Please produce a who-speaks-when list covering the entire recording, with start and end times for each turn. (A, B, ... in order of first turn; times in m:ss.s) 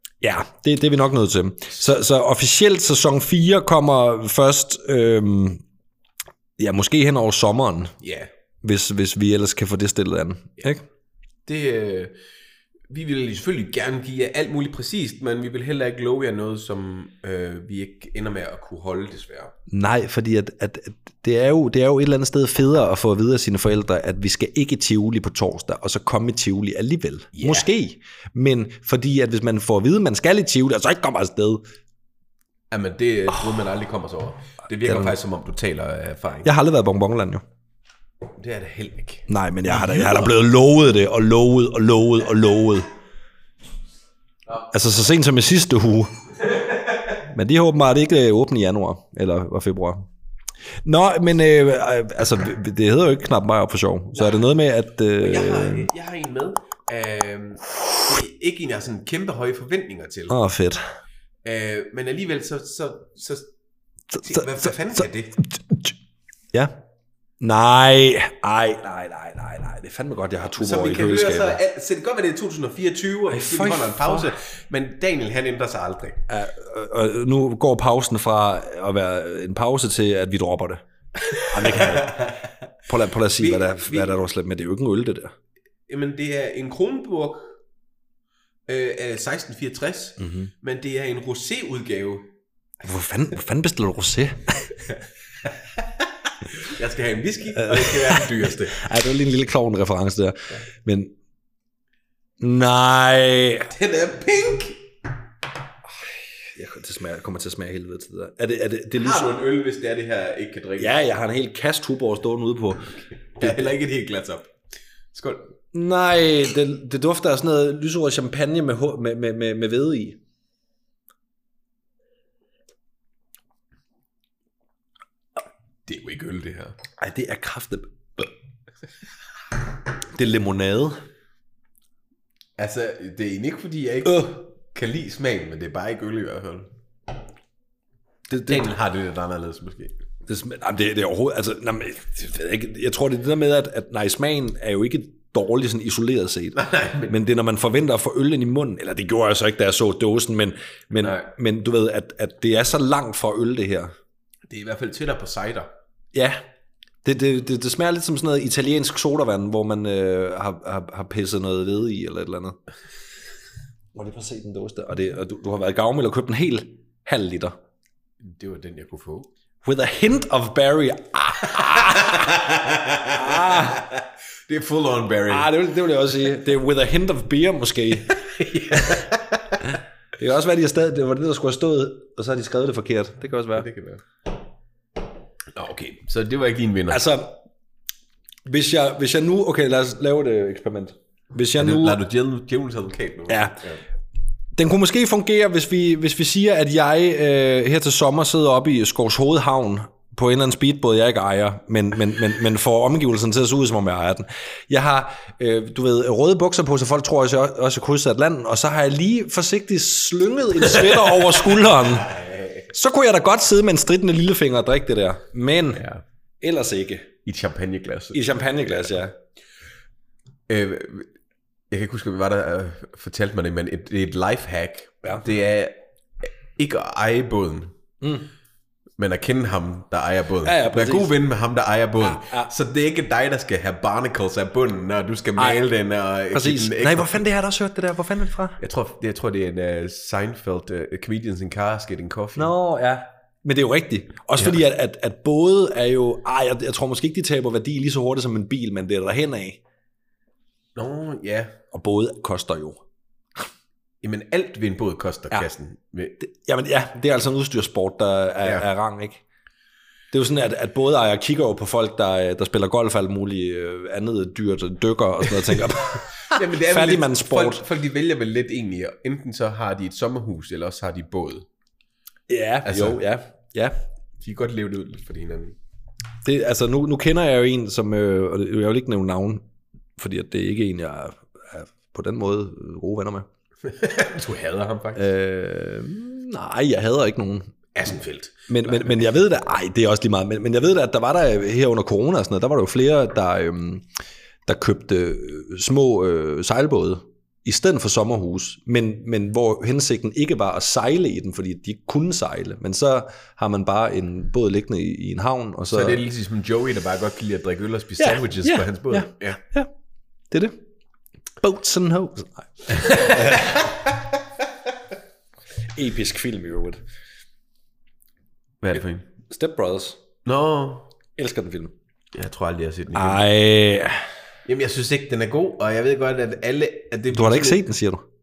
0:00.2-0:05.6 A
0:06.6-0:07.9 A
0:08.0-0:08.3 B
0:08.6-0:10.8 A
0:11.5-0:12.2 B
0:12.9-0:19.5 B
0:19.7-0:31.6 A
0:27.3-0:27.7 B
0:32.7-0:36.5 B
0:34.8-0:35.2 A
0:36.4-0:37.4 A
0:38.3-0:40.3 B
0:39.3-0:42.9 A
0:44.7-0:46.3 A
0:47.1-0:50.1 A
0:50.8-0:55.9 A
0:55.2-1:00.4 B
1:00.3-1:00.8 A
1:01.4-1:03.5 B
1:04.1-1:06.0 A
1:04.2-1:05.4 B
1:06.5-1:06.8 A
1:07.4-1:11.6 A
1:10.6-1:16.3 B
1:13.3-1:14.3 A
1:16.3-1:20.8 A
1:21.2-1:22.6 B
1:21.4-1:22.3 A
1:22.9-1:25.3 A
1:23.3-1:24.2 B
1:25.9-1:27.5 B
1:28.7-1:32.3 B
1:30.2-1:30.5 A
1:32.8-1:34.8 A
1:36.5-1:38.9 B
1:37.6-1:41.1 A
1:42.4-1:43.7 A
1:43.7-1:44.8 B
1:46.0-1:49.3 A
1:49.0-1:51.0 B
1:50.8-1:53.6 A
1:53.4-1:54.5 B
1:55.1-1:55.5 B
1:55.7-2:00.2 A
2:05.9-2:06.8 B
2:07.0-2:08.3 A
2:10.1-2:11.0 A
2:12.6-2:16.7 B
2:14.0-2:14.4 A
2:18.3-2:18.7 A
2:18.4-2:20.0 B
2:20.3-2:33.9 A
2:26.6-2:27.1 B
2:31.0-2:31.3 B
2:34.5-2:35.7 B
2:36.1-2:36.4 A
2:37.0-2:42.6 A
2:43.9-2:47.6 A
2:48.2-2:49.3 B
2:49.6-2:52.3 A
2:51.4-2:55.5 B
2:53.1-2:53.8 A
2:55.3-2:58.2 A
2:58.1-2:59.8 B
2:58.7-2:59.1 A
3:00.2-3:03.7 A
3:03.6-3:04.0 B
3:05.6-3:07.1 B
3:06.9-3:07.4 A
3:08.4-3:12.0 A
3:11.6-3:13.8 B
3:13.3-3:13.6 A
3:14.6-3:35.8 A
3:31.9-3:32.7 B
3:35.7-3:36.0 B
3:36.4-3:37.1 A
3:37.2-3:38.2 B
3:38.1-3:39.2 A
3:40.5-3:41.1 B
3:41.7-3:47.7 B
3:48.0-3:48.3 A
3:49.0-3:57.2 B
3:50.4-3:51.1 A
3:52.0-3:52.5 A
3:56.3-3:58.6 A
3:58.6-4:02.5 B
4:02.4-4:09.6 A
4:10.8-4:11.6 B
4:11.7-4:12.8 A
4:14.0-4:16.2 B
4:16.2-4:19.2 A
4:20.1-4:27.6 A
4:26.3-4:31.5 B
4:32.3-4:33.8 A
4:32.6-4:33.0 B
4:34.2-4:35.6 B
4:36.2-4:39.4 A
4:40.0-4:43.3 A
4:43.6-4:45.1 B
4:45.0-4:47.5 A
4:47.7-4:49.0 B
4:48.5-4:53.9 A
4:54.5-5:06.0 A
5:05.7-5:09.4 B
5:08.0-5:09.7 A
5:10.3-5:10.6 A
5:11.4-5:13.7 A
5:12.7-5:14.0 B
5:15.7-5:16.8 A
5:18.6-5:19.1 B
5:19.3-5:20.0 A
5:20.3-5:20.9 B
5:21.2-5:21.7 A
5:22.1-5:23.2 B
5:23.0-5:24.1 A
5:24.5-5:27.6 B
5:27.1-5:28.0 A